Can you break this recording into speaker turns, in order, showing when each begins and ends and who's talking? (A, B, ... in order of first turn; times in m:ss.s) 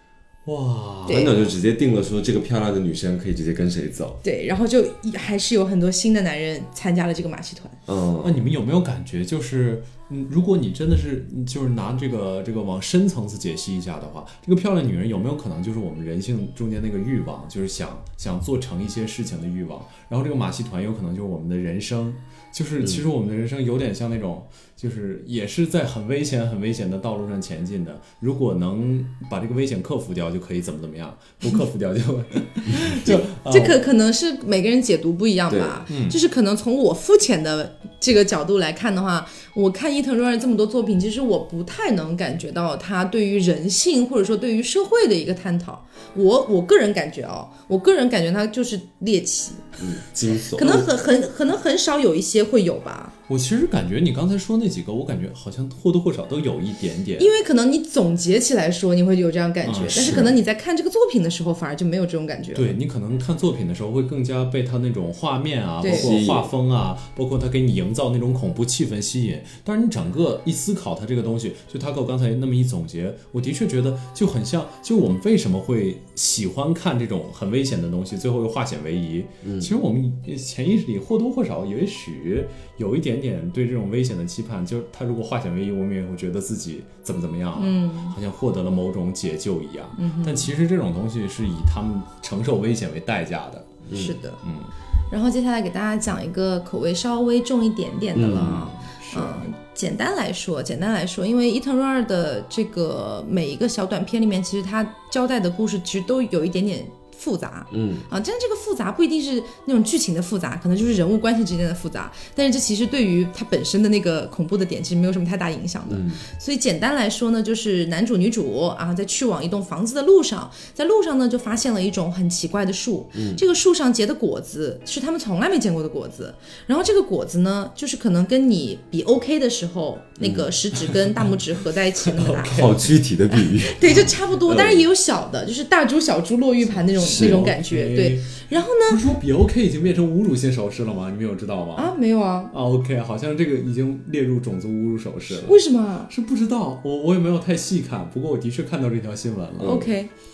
0:00.4-0:01.5 A
0:01.1-0:01.4 B
0:01.1-0:04.2 C
0:04.2-0:07.8 B
0:07.9-0:08.4 C
0:08.2-0:33.8 A
0:33.4-0:49.7 B
0:35.5-0:35.8 C
0:35.9-0:36.2 A
0:49.8-0:50.9 C
0:50.5-0:53.1 B
0:53.3-0:57.3 A
0:57.2-1:02.7 B
0:59.6-1:00.3 A
0:59.9-1:00.4 C
1:02.5-1:33.8 A
1:05.8-1:06.1 B
1:05.9-1:06.5 C
1:19.4-1:19.7 C
1:27.6-1:28.1 B
1:30.0-1:30.5 B
1:33.9-1:34.2 C
1:33.9-1:34.4 B
1:34.4-1:34.7 A
1:35.1-2:12.7 B
1:38.2-1:38.6 C
1:38.3-1:39.4 A
1:47.7-1:48.1 C
1:55.9-1:56.2 C
2:03.2-2:03.4 C
2:10.2-2:10.5 C
2:10.9-2:11.3 A
2:12.0-2:12.9 A
2:12.5-2:14.8 C
2:13.3-2:19.0 B
2:13.8-2:14.2 A
2:17.0-2:17.5 C
2:17.0-2:21.9 A
2:21.8-2:22.5 B
2:22.5-2:29.9 A
2:25.4-2:26.1 B
2:29.6-2:29.9 C
2:29.6-2:30.1 B